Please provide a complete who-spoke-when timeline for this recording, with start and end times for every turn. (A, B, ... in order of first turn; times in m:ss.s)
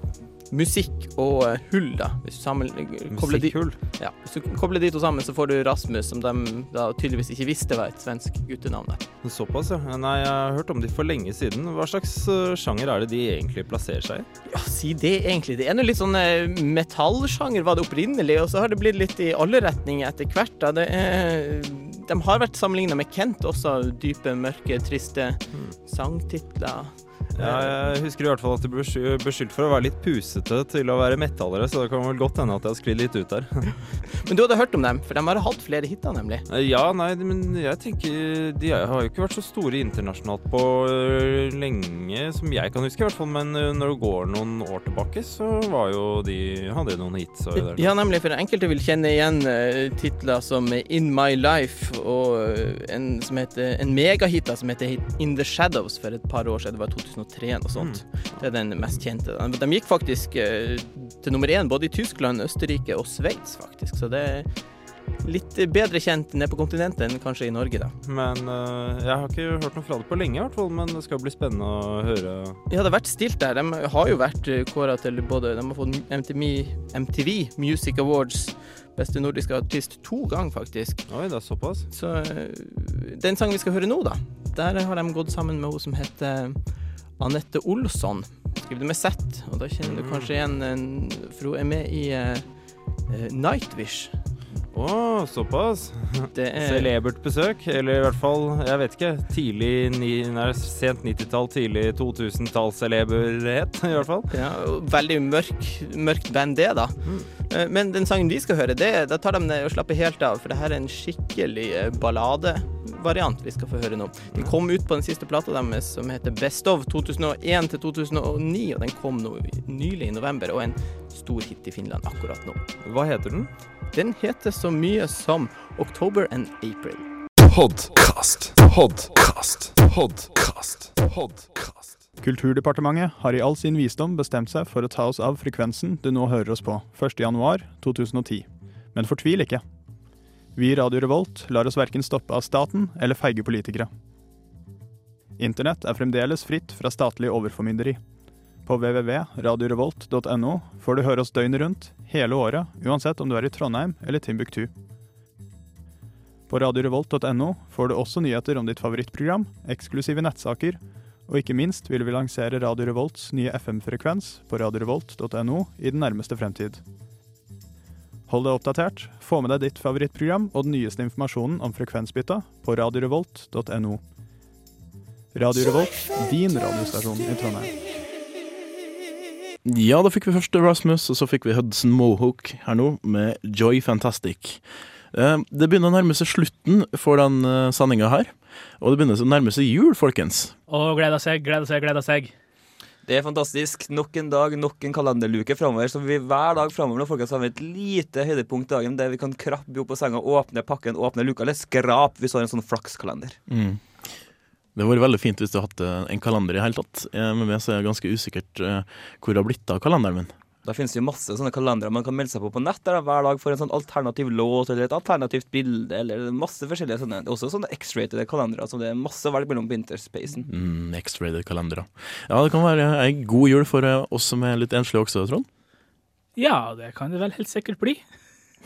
0:00.5-0:09.0 A
0:03.1-0:03.8 B
0:09.2-0:14.3 B
0:14.5-0:28.0 A
0:27.3-0:33.7 B
0:34.3-0:36.4 A
0:36.5-0:48.0 B
0:47.6-1:04.5 A
0:57.8-0:58.4 B
1:05.2-1:07.9 A
1:08.0-1:12.6 B
1:12.7-1:21.1 A
1:21.1-1:21.9 B
1:21.9-1:34.2 A
1:29.8-1:30.4 B
1:34.7-1:44.3 B
1:36.3-1:36.9 A
1:44.3-2:02.6 A
1:47.0-1:47.3 B
2:02.8-2:03.5 B
2:03.9-2:07.1 A
2:12.2-2:19.6 C
2:20.6-2:23.9 C
2:25.4-2:28.0 C
2:28.6-2:34.7 C
2:36.5-2:46.8 C
2:48.3-2:54.0 C
2:55.3-2:57.7 C
2:59.6-3:10.6 D
3:10.7-3:12.3 E
3:13.1-3:23.4 F
3:23.5-3:23.8 D
3:24.8-3:30.4 D
3:30.6-3:40.5 F
3:40.5-3:45.5 D
3:46.4-3:48.0 E